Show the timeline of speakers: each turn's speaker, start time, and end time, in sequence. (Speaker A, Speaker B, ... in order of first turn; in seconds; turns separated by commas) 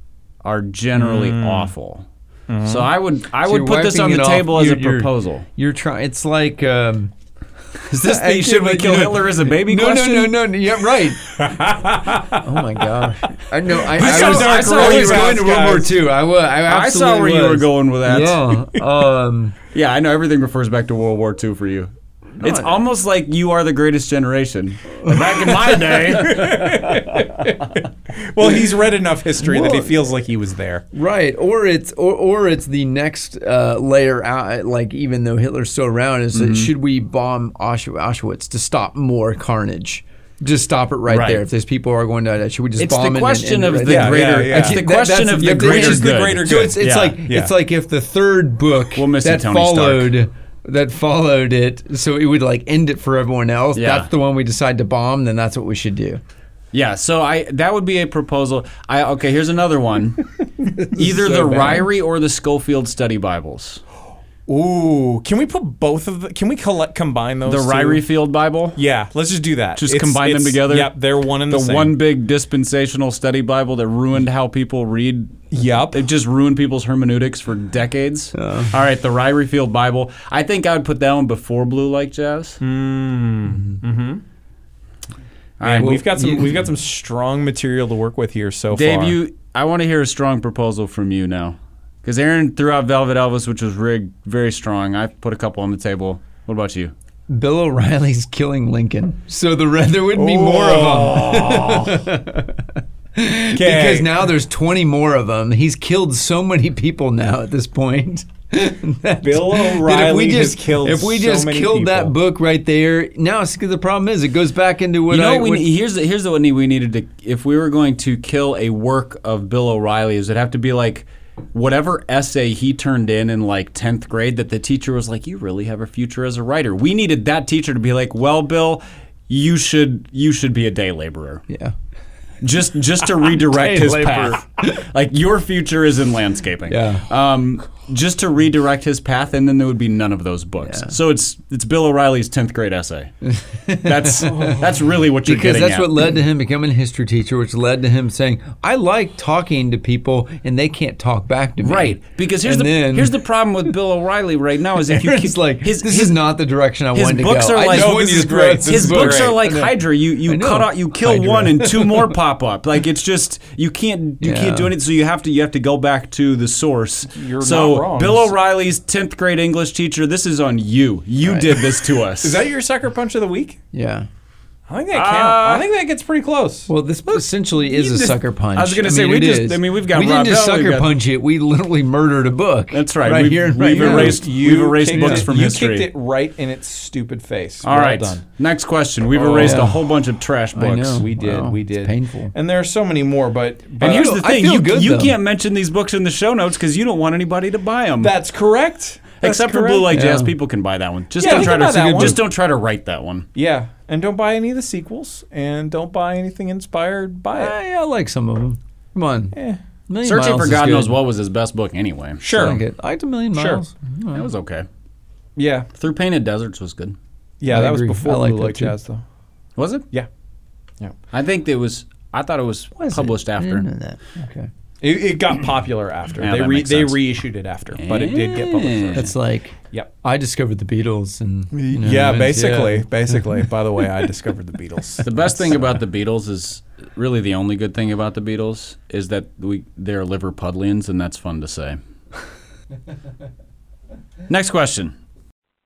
Speaker A: 0.4-2.1, Speaker B: 1.0-1.7, Speaker B: 2.5-2.9, Speaker A: 2.6-5.5, Speaker C: 3.4-7.1, Speaker A: 7.9-10.4, Speaker C: 7.9-11.5, Speaker B: 11.4-12.4, Speaker C: 12.3-19.6, Speaker B: 13.8-15.9, Speaker A: 13.9-15.8, Speaker A: 16.6-18.6, Speaker A: 19.7-26.6, Speaker C: 22.4-22.8, Speaker B: 25.9-30.9, Speaker C: 26.5-27.4, Speaker C: 29.4-29.9, Speaker C: 30.9-56.2, Speaker A: 36.3-36.7, Speaker A: 41.1-41.4, Speaker A: 42.8-47.2, Speaker B: 43.9-44.8, Speaker B: 45.4-47.5, Speaker A: 48.9-50.1, Speaker A: 53.7-54.1, Speaker A: 56.7-60.2, Speaker C: 60.8-61.9, Speaker A: 60.9-63.8, Speaker B: 64.5-68.0, Speaker A: 67.4-68.8, Speaker B: 68.8-72.0, Speaker A: 69.8-82.6, Speaker B: 75.5-76.0, Speaker C: 78.3-78.7, Speaker B: 82.6-84.2, Speaker A: 85.6-86.2, Speaker B: 85.6-89.2, Speaker A: 88.7-96.9, Speaker C: 97.3-115.7, Speaker B: 100.1-102.1, Speaker B: 103.5-104.3, Speaker B: 109.2-112.1, Speaker A: 115.1-131.4, Speaker C: 131.5-131.7, Speaker A: 132.4-143.1, Speaker C: 133.0-134.9, Speaker C: 136.7-137.1, Speaker C: 140.6-140.9, Speaker C: 143.2-144.6, Speaker A: 143.8-146.1, Speaker C: 145.2-153.7, Speaker A: 151.6-156.2, Speaker C: 154.8-162.2, Speaker A: 156.9-172.4, Speaker B: 157.7-159.4, Speaker C: 164.2-164.7, Speaker B: 167.1-168.3, Speaker C: 171.2-171.5, Speaker B: 172.2-173.6, Speaker C: 173.7-174.1, Speaker B: 174.7-176.7, Speaker A: 174.9-175.7, Speaker C: 176.7-184.2, Speaker A: 177.1-180.9, Speaker A: 182.7-185.9, Speaker B: 183.7-188.2, Speaker C: 184.9-185.2, Speaker A: 187.6-191.1, Speaker B: 189.1-189.7, Speaker C: 189.4-189.8, Speaker C: 190.6-192.3, Speaker B: 191.0-194.1, Speaker A: 193.8-198.1, Speaker C: 193.8-195.2, Speaker B: 198.0-199.9, Speaker A: 199.2-203.3, Speaker C: 199.9-200.3, Speaker B: 201.2-202.2, Speaker C: 201.2-202.2, Speaker B: 203.3-207.6, Speaker C: 207.3-209.4, Speaker C: 209.9-211.0, Speaker A: 210.0-212.3, Speaker B: 212.2-212.6, Speaker C: 212.3-214.3, Speaker B: 213.3-213.6, Speaker A: 214.1-214.7, Speaker B: 215.4-215.7, Speaker A: 215.7-217.0, Speaker B: 217.4-219.0, Speaker C: 217.5-218.8, Speaker A: 219.6-219.9, Speaker A: 221.1-223.7, Speaker C: 222.8-224.5, Speaker B: 224.8-229.1, Speaker A: 226.2-227.0, Speaker A: 227.7-229.1, Speaker C: 228.9-233.4, Speaker B: 231.5-235.1, Speaker A: 235.0-241.8, Speaker A: 244.3-244.9